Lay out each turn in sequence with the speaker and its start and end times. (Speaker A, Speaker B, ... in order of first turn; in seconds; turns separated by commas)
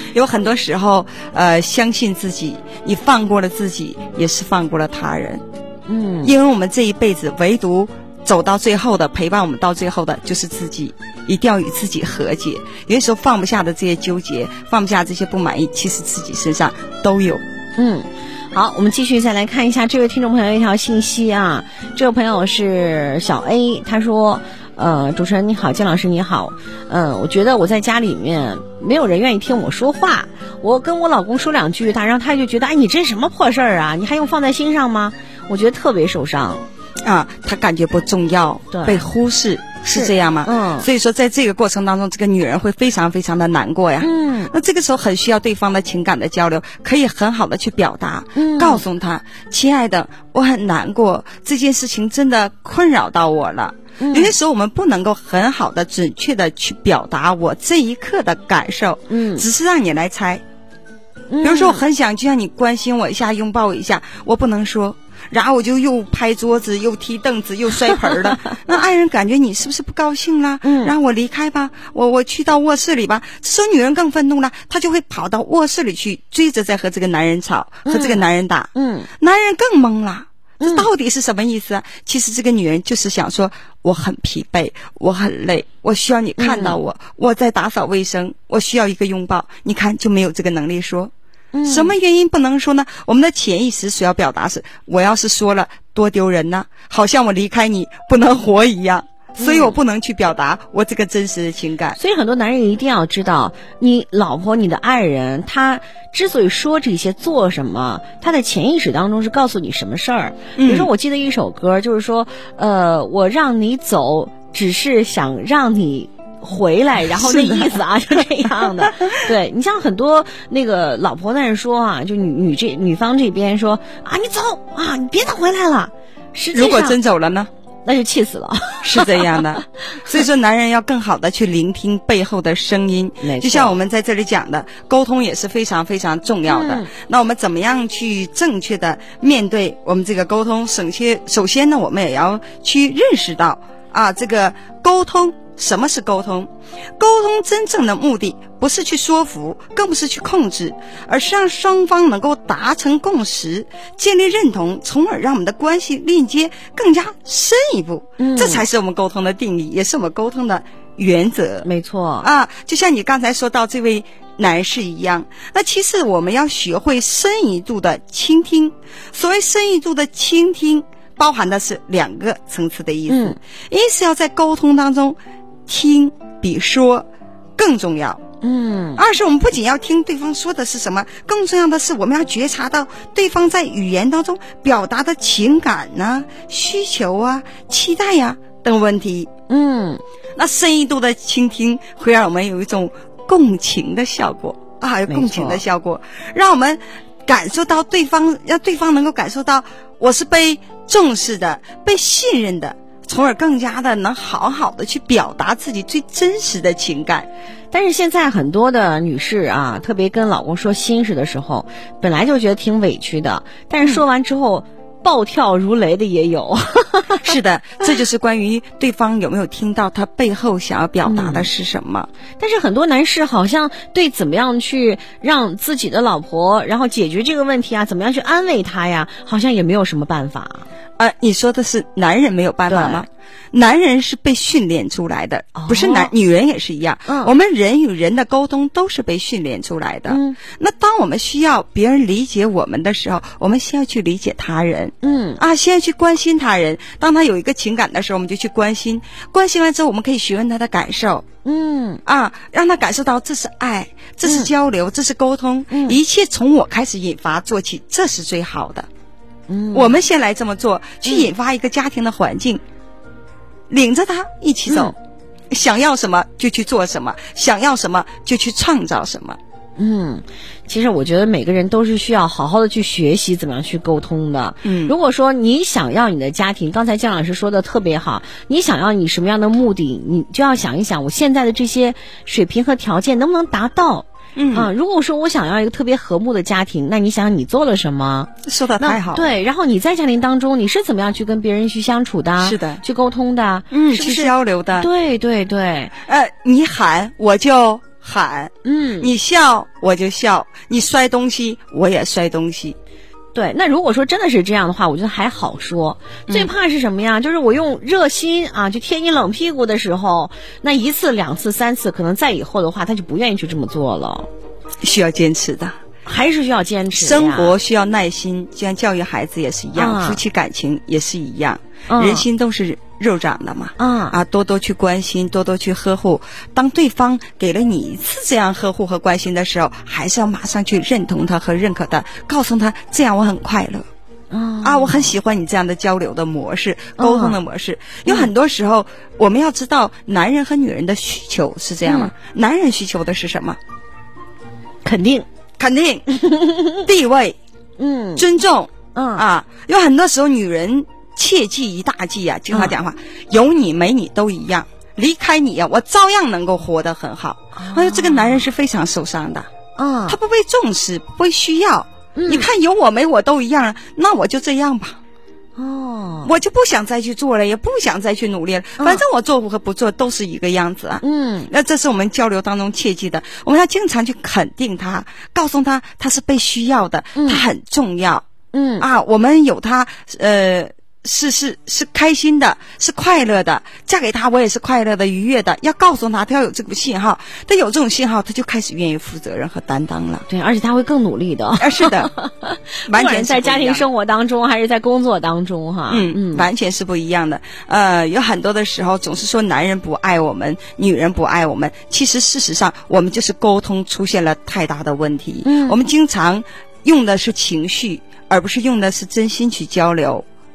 Speaker A: 0.1-5.4, Speaker B: 5.9-6.3, Speaker A: 6.2-17.4, Speaker B: 17.8-36.6, Speaker A: 37.0-60.4, Speaker B: 38.7-39.0, Speaker B: 39.9-40.9, Speaker B: 44.0-44.5, Speaker B: 48.4-48.8, Speaker B: 54.0-54.3, Speaker B: 59.1-59.5, Speaker B: 61.3-61.8, Speaker A: 61.4-91.1, Speaker B: 70.6-70.9, Speaker B: 77.8-78.2, Speaker B: 78.7-79.1, Speaker B: 80.6-80.8, Speaker B: 86.4-86.8, Speaker B: 91.5-91.9, Speaker A: 91.6-102.0, Speaker B: 99.4-99.7, Speaker B: 102.0-127.0, Speaker A: 110.6-110.9, Speaker A: 117.1-117.8, Speaker A: 118.6-119.2, Speaker A: 126.5-127.5, Speaker B: 127.8-129.4, Speaker A: 128.8-161.7, Speaker B: 133.2-133.8, Speaker B: 136.5-136.9, Speaker B: 158.2-158.6, Speaker B: 161.6-162.3, Speaker A: 162.2-178.2, Speaker B: 173.1-173.4, Speaker B: 178.4-179.0, Speaker A: 178.9-189.3, Speaker B: 189.5-190.0, Speaker A: 190.4-207.3, Speaker B: 195.1-195.6, Speaker B: 207.7-217.3, Speaker A: 217.2-222.1, Speaker B: 221.0-221.5, Speaker B: 222.4-230.7, Speaker A: 231.0-251.2, Speaker B: 232.7-233.0, Speaker B: 235.5-236.1, Speaker B: 237.1-237.3, Speaker B: 240.1-240.4, Speaker B: 245.0-245.4, Speaker B: 251.4-252.0, Speaker A: 252.1-258.9, Speaker B: 255.7-256.0, Speaker B: 259.5-260.0, Speaker A: 259.7-262.6, Speaker A: 263.7-264.9, Speaker B: 264.7-264.9, Speaker A: 265.5-269.4, Speaker B: 269.8-295.9, Speaker A: 274.6-274.9, Speaker A: 284.4-284.7, Speaker A: 288.4-289.3, Speaker A: 292.4-292.8, Speaker A: 293.7-294.9, Speaker A: 296.0-302.8, Speaker B: 298.6-299.1, Speaker B: 303.3-314.3, Speaker A: 314.8-315.8, Speaker B: 316.1-317.5, Speaker A: 316.9-333.9, Speaker B: 319.8-320.2, Speaker B: 321.9-322.2, Speaker B: 323.8-324.2, Speaker B: 334.3-335.1, Speaker A: 334.6-343.6, Speaker B: 337.0-337.4, Speaker B: 341.8-342.1, Speaker B: 344.8-345.2, Speaker A: 345.6-346.1, Speaker B: 346.2-346.8, Speaker A: 346.8-347.4, Speaker B: 347.8-348.2, Speaker A: 348.1-359.5, Speaker B: 348.9-349.2, Speaker B: 357.5-358.4, Speaker B: 359.8-360.2, Speaker A: 360.1-365.0, Speaker B: 362.1-362.5, Speaker B: 365.6-366.3, Speaker A: 366.2-378.2, Speaker B: 371.0-371.5, Speaker B: 377.1-377.4, Speaker B: 378.5-378.9, Speaker A: 378.8-390.2, Speaker B: 390.3-396.5, Speaker A: 391.6-392.1, Speaker A: 392.9-393.9, Speaker A: 395.9-410.2, Speaker B: 405.4-405.8